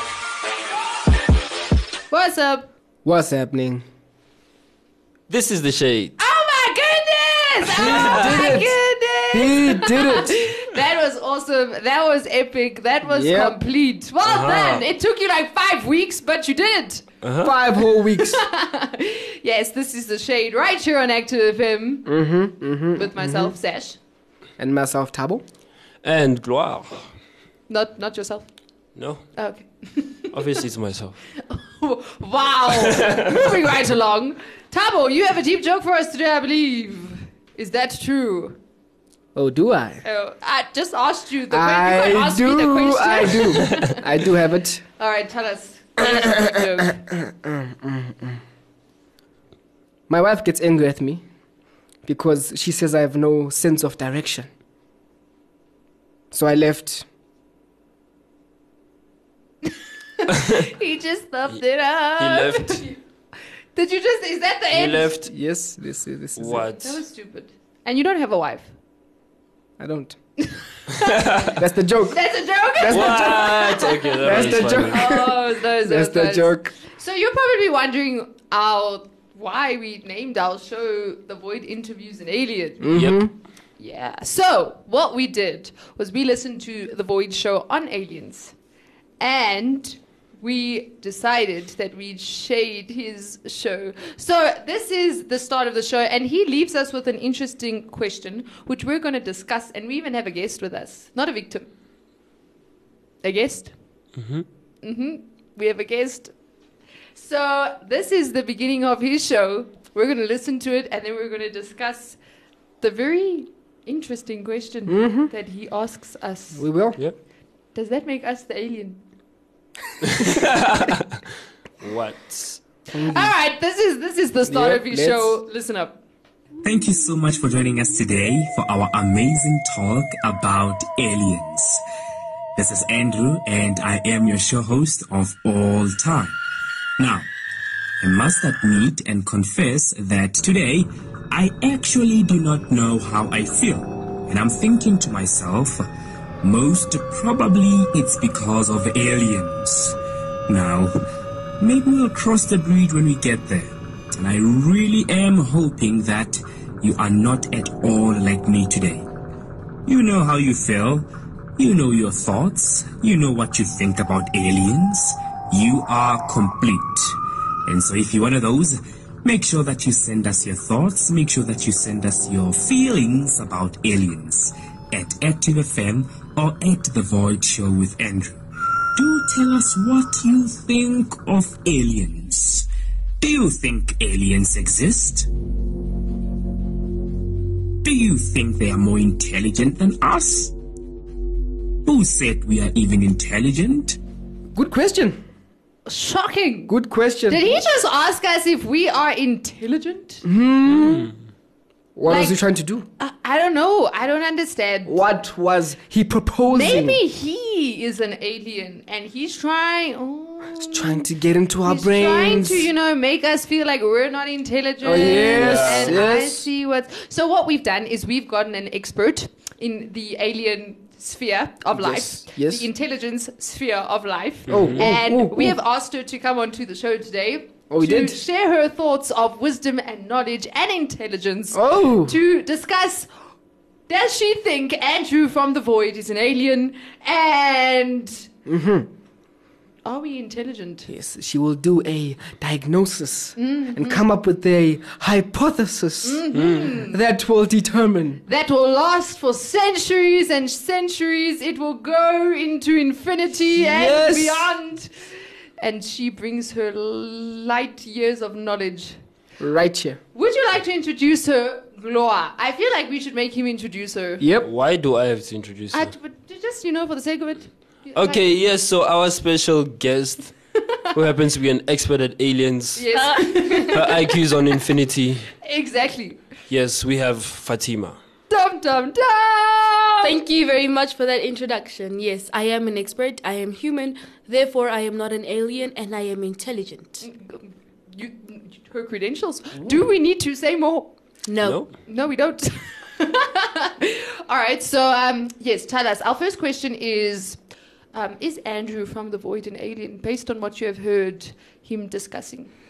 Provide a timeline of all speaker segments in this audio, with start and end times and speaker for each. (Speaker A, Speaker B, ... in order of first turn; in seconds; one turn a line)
Speaker A: 2.1-2.7
Speaker B: 3.0-3.8
Speaker C: 5.3-6.1
Speaker A: 6.2-17.1
Speaker B: 7.7-8.8
Speaker C: 7.7-8.5
Speaker B: 9.3-10.3
Speaker B: 13.0-13.6
Speaker C: 14.2-14.9
Speaker C: 17.2-17.5
Speaker B: 17.4-18.4
Speaker A: 17.8-22.1
Speaker B: 22.1-23.6
Speaker A: 22.9-24.0
Speaker B: 24.6-25.4
Speaker C: 26.0-27.1
Speaker A: 27.7-28.5
Speaker C: 28.9-29.3
Speaker A: 29.3-30.4
Speaker C: 30.3-31.2
Speaker A: 31.4-38.6
Speaker C: 32.7-33.2
Speaker B: 39.3-40.0
Speaker A: 40.0-44.0
Speaker B: 41.5-44.8
Speaker A: 45.0-47.0
Speaker B: 47.1-48.4
Speaker B: 50.1-51.2
Speaker B: 52.0-54.5
Speaker B: 56.3-57.0
Speaker A: 60.2-63.0
Speaker C: 62.1-62.9
Speaker A: 63.7-65.1
Speaker C: 64.7-65.3
Speaker B: 65.2-66.7
Speaker C: 66.3-67.0
Speaker A: 66.8-68.7
Speaker B: 69.8-70.2
Speaker A: 70.5-71.5
Speaker C: 71.0-71.5
Speaker B: 71.5-76.7
Speaker A: 72.1-82.9
Speaker C: 72.9-75.1
Speaker B: 82.8-83.3
Speaker C: 82.9-83.2
Speaker A: 83.8-88.5
Speaker A: 89.2-101.7
Speaker A: 103.2-103.7
Speaker C: 104.2-104.4
Speaker A: 104.8-106.3
Speaker A: 107.1-112.2
Speaker A: 112.8-116.7
Speaker B: 114.9-115.3
Speaker B: 116.5-117.0
Speaker A: 117.7-119.0
Speaker C: 120.0-121.1
Speaker C: 121.8-122.6
Speaker B: 122.9-123.4
Speaker A: 122.9-126.0
Speaker B: 124.4-125.4
Speaker D: 126.6-131.8
Speaker D: 132.6-136.4
Speaker D: 137.0-137.3
Speaker D: 138.0-145.8
Speaker D: 146.4-149.9
Speaker D: 150.5-150.9
Speaker D: 151.6-159.1
Speaker D: 159.8-178.4
Speaker D: 178.9-182.7
Speaker D: 183.2-185.3
Speaker D: 187.8-190.5
Speaker D: 191.8-194.0
Speaker B: 194.5-195.2
Speaker A: 195.8-196.7
Speaker B: 196.7-197.4
Speaker A: 197.3-200.2
Speaker B: 200.2-201.1
Speaker B: 201.9-202.9
Speaker A: 202.1-202.4
Speaker A: 203.0-205.0
Speaker B: 204.8-207.0
Speaker A: 206.4-211.1
Speaker B: 210.6-212.7
Speaker A: 211.6-233.1
Speaker B: 214.8-216.5
Speaker C: 214.9-216.0
Speaker B: 221.7-222.7
Speaker C: 224.5-224.8
Speaker B: 224.5-225.6
Speaker B: 227.7-228.2
Speaker B: 231.5-232.2
Speaker A: 233.9-238.3
Speaker B: 238.4-238.9
Speaker A: 239.8-240.9
Speaker B: 240.9-248.2
Speaker A: 243.3-244.0
Speaker A: 246.0-247.0
Speaker C: 246.3-246.7
Speaker A: 248.2-254.9
Speaker B: 253.5-254.6
Speaker A: 255.6-258.9
Speaker B: 259.4-260.0
Speaker A: 260.1-264.2
Speaker B: 264.2-264.5
Speaker C: 264.4-265.9
Speaker A: 265.7-268.4
Speaker C: 267.9-270.3
Speaker C: 270.9-275.3
Speaker A: 272.8-273.9
Speaker A: 275.4-276.2
Speaker C: 276.5-278.0
Speaker A: 278.3-280.1
Speaker E: 280.0-287.0
Speaker A: 287.0-290.9
Speaker E: 291.2-291.6
Speaker C: 291.4-291.7
Speaker A: 291.9-297.4
Speaker A: 297.9-302.5